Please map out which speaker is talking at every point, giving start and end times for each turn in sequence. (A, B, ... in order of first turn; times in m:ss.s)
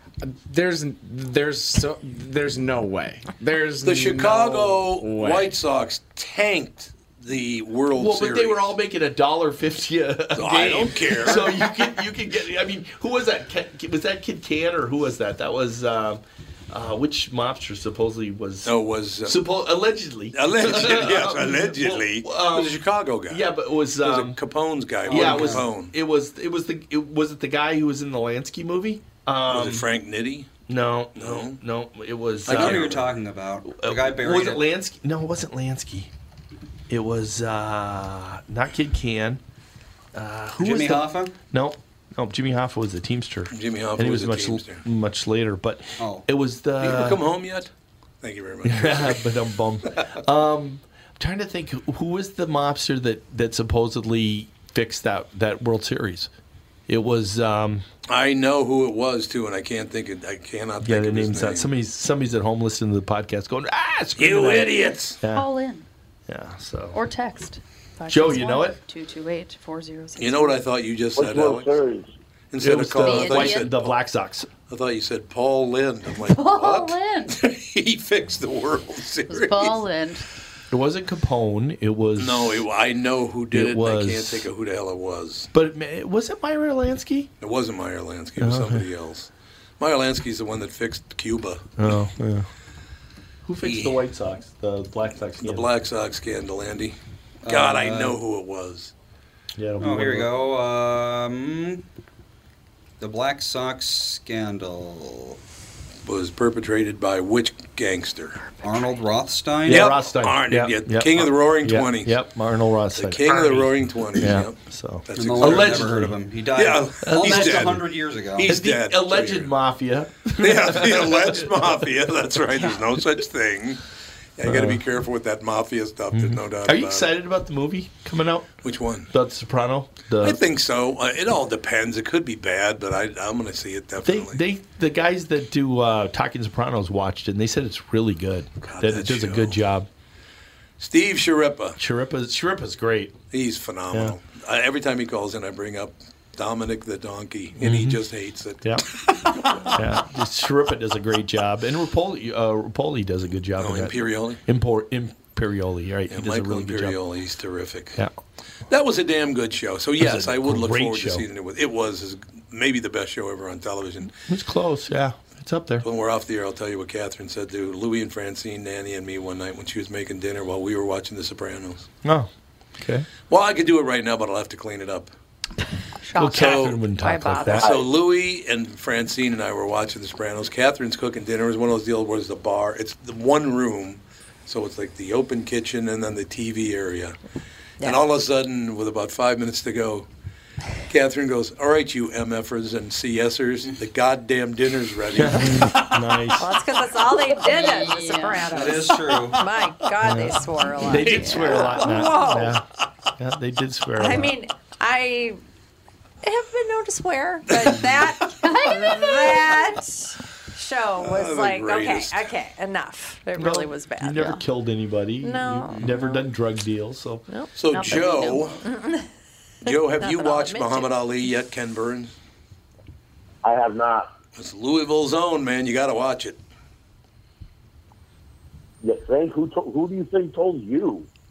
0:00.2-0:05.5 A
0:03.8-0:08.7 B
0:08.0-0:24.4 C
0:10.4-0:11.5 B
0:18.6-0:19.4 B
0:20.3-0:25.9 B
0:25.0-0:25.7 D
0:25.1-0:29.9 C
0:29.5-0:30.5 B
0:30.7-0:33.0 C
0:31.2-0:31.6 B
0:32.5-0:34.7 D
0:32.5-0:33.2 B
0:33.6-0:36.1 C
0:36.9-0:39.4 C
0:40.2-0:47.2 C
0:40.6-0:41.4 D
0:43.5-0:44.8 B
0:46.0-0:46.3 D
0:46.8-0:49.2 B
0:48.6-0:56.3 C
0:56.9-0:57.8 C
0:58.1-1:01.7 B
1:00.8-1:05.5 C
1:04.2-1:05.2 B
1:05.3-1:05.9 E
1:06.3-1:07.0 C
1:06.9-1:10.6 E
1:08.1-1:08.8 C
1:10.2-1:11.8 B
1:11.2-1:12.1 F
1:12.5-1:14.0 B
1:12.6-1:14.5 C
1:13.0-1:13.8 E
1:14.7-1:19.8 B
1:16.2-1:17.4 E
1:19.3-1:20.3 E
1:20.7-1:22.7 C
1:22.2-1:25.5 B
1:23.5-1:24.5 C
1:25.5-1:27.3 C
1:27.4-1:31.9 B
1:28.4-1:28.8 C
1:31.8-1:32.5 C
1:33.4-1:35.7 C
1:33.6-1:34.0 B
1:35.4-1:38.9 B
1:37.4-1:38.2 D
1:39.6-1:40.3 C
1:39.8-1:41.8 D
1:43.0-1:45.4 D
1:46.0-1:48.4 B
1:48.6-1:50.0 D
1:48.6-1:48.9 E
1:49.6-1:56.1 C
1:49.7-1:52.2 B
1:52.9-1:56.0 B
1:55.1-1:58.5 D
1:56.5-1:59.5 B
1:57.0-1:57.8 C
1:58.4-2:01.9 C
2:00.4-2:03.8 B
2:04.4-2:07.1 B
2:04.4-2:04.8 C
2:06.1-2:08.5 C
2:08.6-2:09.1 B
2:09.1-2:10.4 C
2:10.2-2:14.4 B
2:14.0-2:19.9 C
2:18.6-2:19.6 B
2:20.8-2:21.8 B
2:21.8-2:23.2 C
2:23.3-2:29.8 B
2:27.6-2:28.0 C
2:28.6-2:28.9 C
2:29.6-2:37.0 C
2:33.6-2:34.4 B
2:36.1-2:38.0 B
2:38.7-2:44.1 B
2:40.0-2:41.3 C
2:44.3-2:45.8 C
2:45.8-2:51.9 B
2:52.0-2:53.1 C
2:53.3-2:55.1 B
2:56.0-2:56.7 E
2:56.2-2:57.8 C
2:56.4-2:56.8 B
2:57.0-2:57.7 G
2:57.6-3:07.2 B
3:07.8-3:10.1 B
3:10.9-3:16.0 B
3:15.2-3:16.5 C
3:16.4-3:22.6 G
3:17.3-3:18.5 E
3:18.5-3:19.4 D
3:20.0-3:22.6 C
3:21.0-3:22.1 E
3:21.0-3:21.6 B
3:23.2-3:24.4 C
3:24.0-3:25.4 G
3:26.2-3:34.4 G
3:28.4-3:29.6 E
3:31.0-3:32.3 B
3:33.4-3:37.2 C
3:35.2-3:36.2 G
3:35.7-3:36.0 D
3:37.3-3:39.1 G
3:37.6-3:38.6 B
3:37.7-3:38.6 E
3:39.6-3:42.1 B
3:39.7-3:40.9 G
3:43.4-3:44.1 F
3:44.4-3:46.4 B
3:48.8-3:51.1 F